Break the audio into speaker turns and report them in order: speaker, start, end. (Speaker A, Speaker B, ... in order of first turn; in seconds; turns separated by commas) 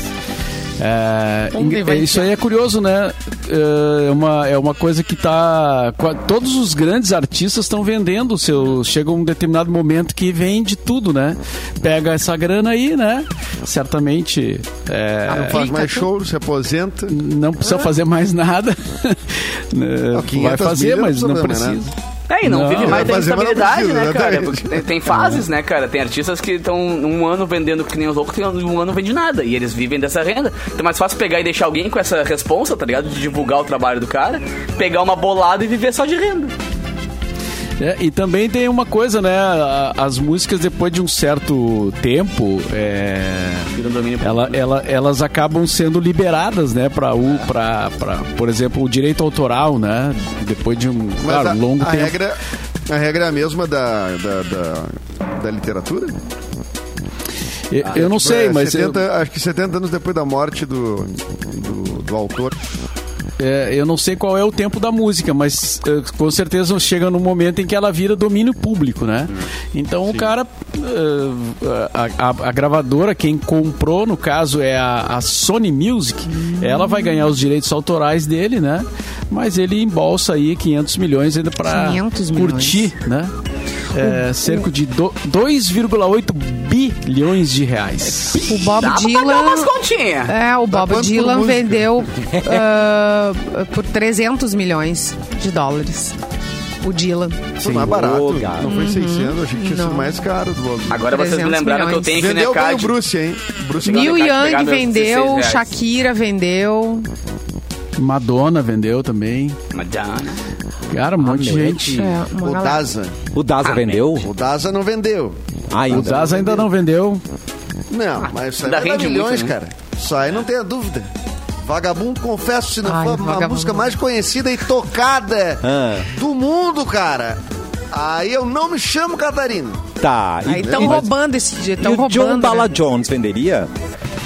Speaker A: 0.8-15.6, Speaker B: 1.5-2.3, Speaker B: 15.3-16.1, Speaker C: 15.3-17.2, Speaker A: 17.1-23.1, Speaker C: 20.1-21.8, Speaker D: 22.3-36.5, Speaker C: 22.8-24.9, Speaker A: 25.1-25.4, Speaker A: 37.8-43.7, Speaker D: 43.7-44.6, Speaker A: 44.2-52.1, Speaker C: 51.2-56.2, Speaker A: 57.7-59.0, Speaker C: 57.9-62.6, Speaker A: 63.4-83.3, Speaker B: 76.3-77.3, Speaker B: 81.7-82.9, Speaker A: 83.9-88.6, Speaker B: 84.0-84.7, Speaker B: 88.3-89.7, Speaker D: 88.3-90.3, Speaker B: 90.3-96.2, Speaker C: 90.7-91.9, Speaker E: 92.3-92.7, Speaker B: 96.8-97.5, Speaker C: 97.6-101.1, Speaker A: 97.6-98.0, Speaker E: 97.8-98.8, Speaker B: 98.6-100.2, Speaker D: 100.9-103.0, Speaker B: 101.1-102.2, Speaker C: 102.1-104.2, Speaker D: 103.8-105.7, Speaker B: 103.8-107.1, Speaker A: 108.0-109.6, Speaker D: 109.7-110.4, Speaker A: 110.9-112.1, Speaker E: 111.2-112.1, Speaker B: 111.8-112.9, Speaker C: 112.3-113.2, Speaker E: 113.3-114.3, Speaker D: 113.6-114.1, Speaker C: 114.2-115.4, Speaker E: 115.7-116.4, Speaker C: 115.9-116.7, Speaker A: 115.9-117.2, Speaker C: 117.9-121.1, Speaker D: 118.6-119.5, Speaker C: 121.6-127.4, Speaker B: 122.8-124.0, Speaker E: 125.6-126.1, Speaker C: 127.9-129.9, Speaker E: 130.0-131.1, Speaker B: 130.4-132.8, Speaker C: 130.5-131.0, Speaker E: 131.8-133.7